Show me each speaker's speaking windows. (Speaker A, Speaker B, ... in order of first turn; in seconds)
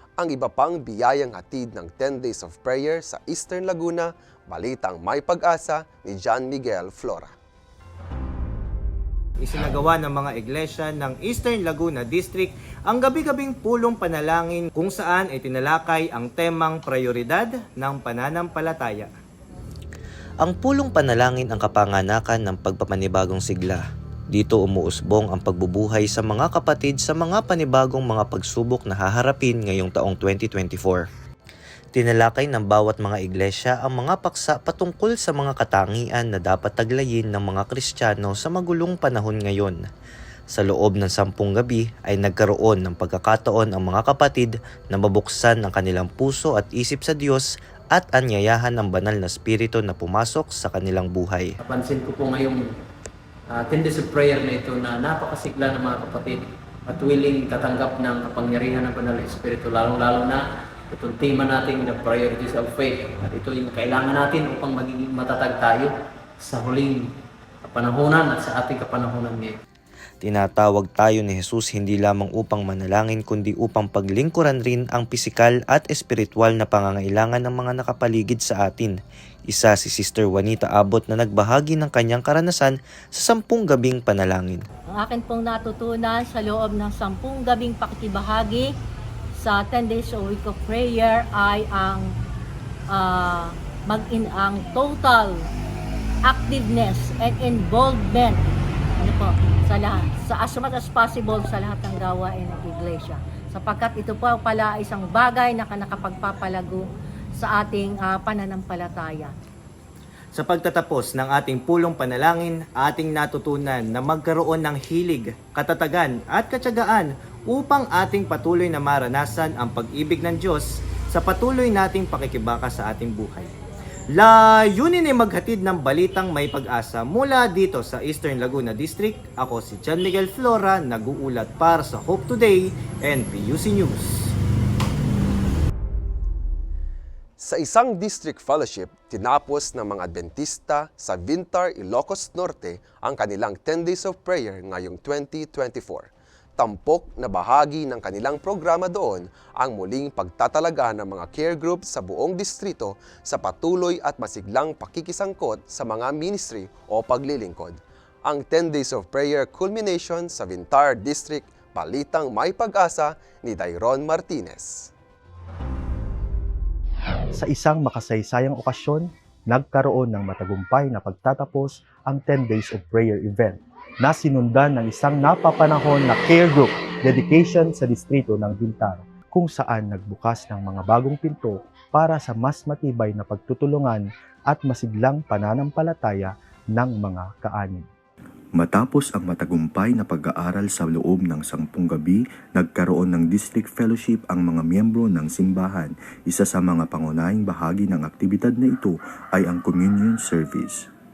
Speaker A: 0.2-7.3, 137.4-164.9
Speaker B: 9.4-19.1, 110.3-123.5, 124.2-134.3
Speaker C: 20.4-31.0, 31.9-39.9, 40.5-51.5, 70.2-79.0, 79.5-84.6
Speaker D: 51.6-52.6, 53.5-60.4, 60.9-65.9, 66.4-67.0, 67.7-69.5
Speaker E: 85.0-88.7, 89.4-92.1, 92.9-95.4, 96.2-106.8, 107.4-109.3
Speaker F: 167.3-187.9
Speaker G: 188.6-200.9